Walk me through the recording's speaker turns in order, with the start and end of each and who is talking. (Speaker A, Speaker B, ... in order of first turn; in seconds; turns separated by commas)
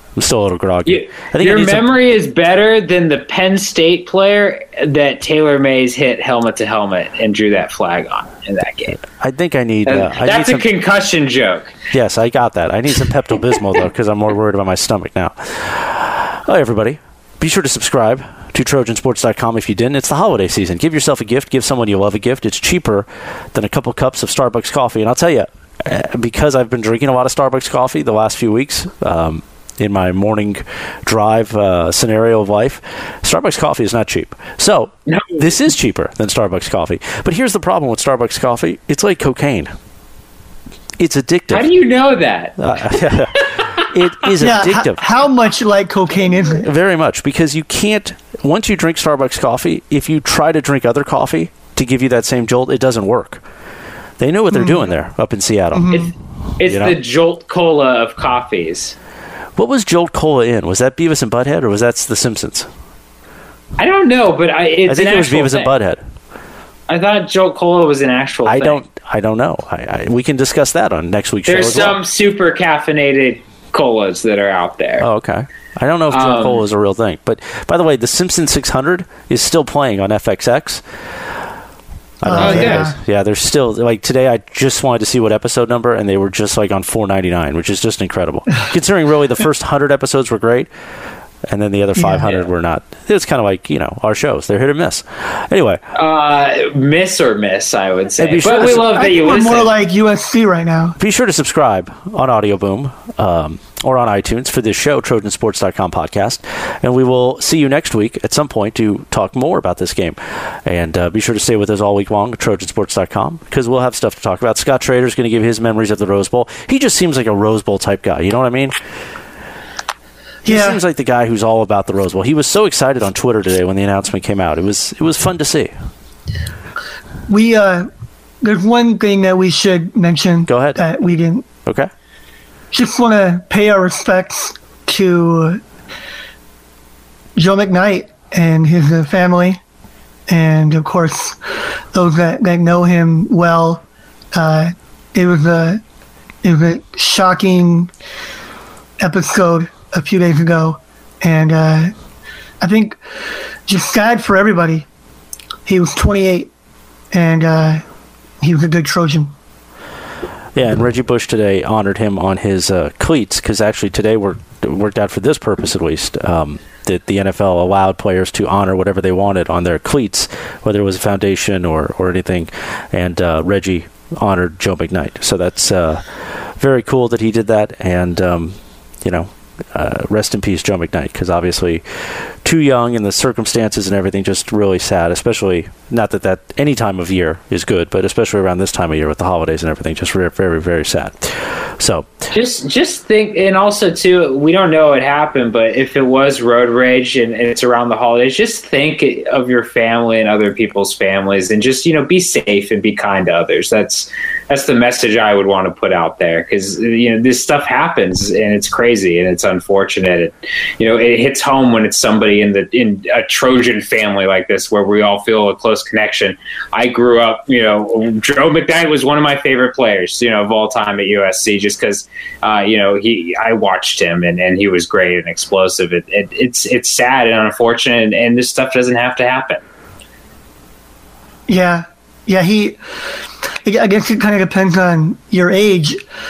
Speaker A: 0.2-1.9, Speaker B: 0.9-9.0, Speaker A: 9.2-10.7, Speaker B: 9.9-11.7, Speaker A: 11.9-39.7, Speaker B: 35.1-35.5, Speaker A: 41.0-41.7, Speaker B: 41.5-43.7, Speaker A: 42.6-45.0, Speaker C: 44.4-46.7, Speaker A: 46.6-53.4, Speaker A: 54.2-56.0, Speaker C: 54.5-54.9, Speaker C: 55.7-56.1, Speaker B: 55.9-59.0, Speaker A: 56.6-57.0, Speaker A: 59.6-62.7, Speaker B: 63.8-65.7, Speaker A: 64.9-66.0, Speaker B: 66.9-68.8, Speaker A: 68.5-72.0, Speaker B: 71.5-75.1, Speaker A: 75.0-80.8, Speaker B: 76.1-76.6, Speaker A: 82.2-90.7, Speaker C: 82.3-83.0, Speaker B: 82.4-82.9, Speaker A: 91.5-95.8, Speaker C: 92.0-92.3, Speaker B: 95.9-99.7, Speaker A: 98.2-99.0, Speaker C: 98.5-101.0, Speaker A: 101.0-118.8, Speaker C: 120.5-120.8, Speaker A: 120.5-125.7, Speaker C: 127.3-127.9, Speaker C: 128.4-131.5, Speaker A: 130.5-130.8, Speaker A: 131.7-131.9, Speaker C: 132.7-135.6, Speaker C: 137.4-139.6, Speaker C: 140.3-141.4, Speaker C: 141.9-145.8, Speaker C: 146.4-147.9, Speaker C: 149.0-151.9, Speaker C: 152.6-153.0, Speaker C: 153.7-154.9, Speaker C: 155.7-156.5, Speaker C: 157.1-157.8, Speaker C: 158.4-159.3, Speaker A: 160.6-192.1, Speaker B: 192.3-229.6, Speaker C: 231.5-232.8, Speaker C: 233.7-236.0